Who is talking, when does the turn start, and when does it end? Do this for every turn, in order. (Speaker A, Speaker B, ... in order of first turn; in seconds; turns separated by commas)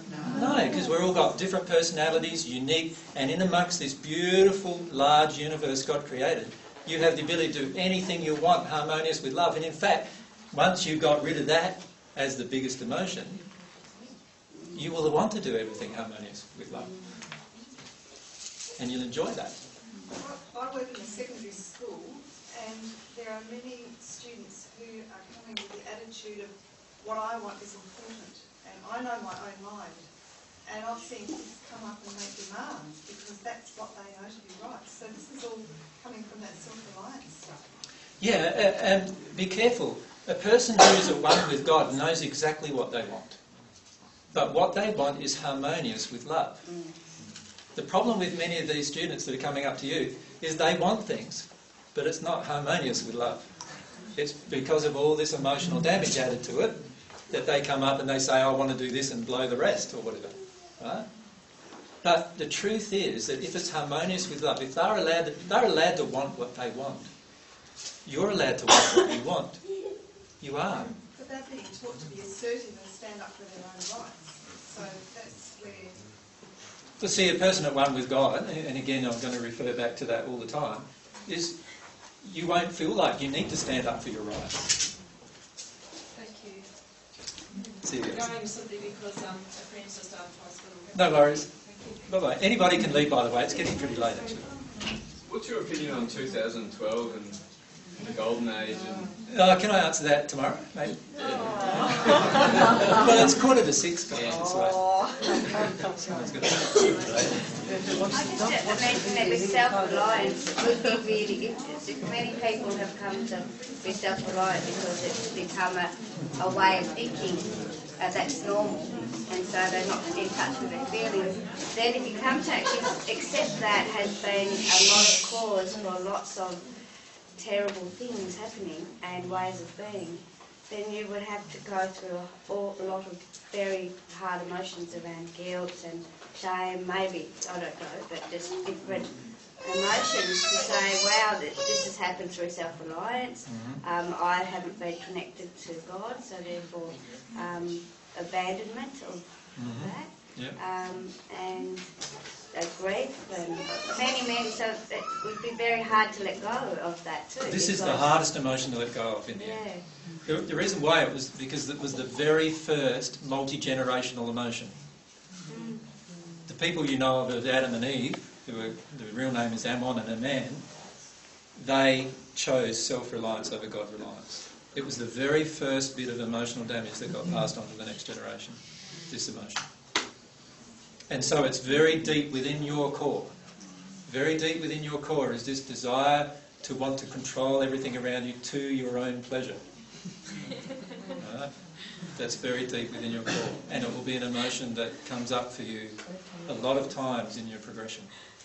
Speaker A: 0.3-13.4, Speaker A: 14.7-16.9, Speaker A: 18.8-19.6, Speaker B: 20.2-30.1, Speaker B: 30.6-37.5, Speaker A: 38.2-43.4, Speaker A: 44.3-46.6, Speaker C: 46.7-46.9, Speaker A: 47.8-53.5, Speaker A: 54.2-56.8, Speaker A: 57.3-61.1, Speaker A: 62.0-67.1, Speaker A: 68.0-69.6, Speaker A: 70.4-71.0, Speaker B: 71.1-76.0, Speaker A: 77.0-81.6, Speaker A: 82.2-84.7, Speaker D: 86.1-86.7, Speaker A: 87.8-88.3, Speaker D: 88.1-92.0, Speaker A: 90.9-94.5, Speaker E: 95.3-97.5, Speaker E: 98.0-99.1, Speaker A: 99.3-101.0, Speaker A: 102.8-105.5, Speaker A: 106.0-107.1, Speaker C: 108.1-126.7, Speaker C: 127.3-151.9, Speaker A: 143.5-143.8, Speaker A: 149.6-150.6, Speaker C: 152.5-158.2, Speaker A: 157.4-164.8, Speaker C: 159.3-159.8, Speaker C: 165.5-165.8, Speaker A: 166.5-170.7, Speaker A: 171.6-179.6, Speaker A: 181.1-183.3, Speaker A: 184.1-189.6, Speaker A: 191.2-198.3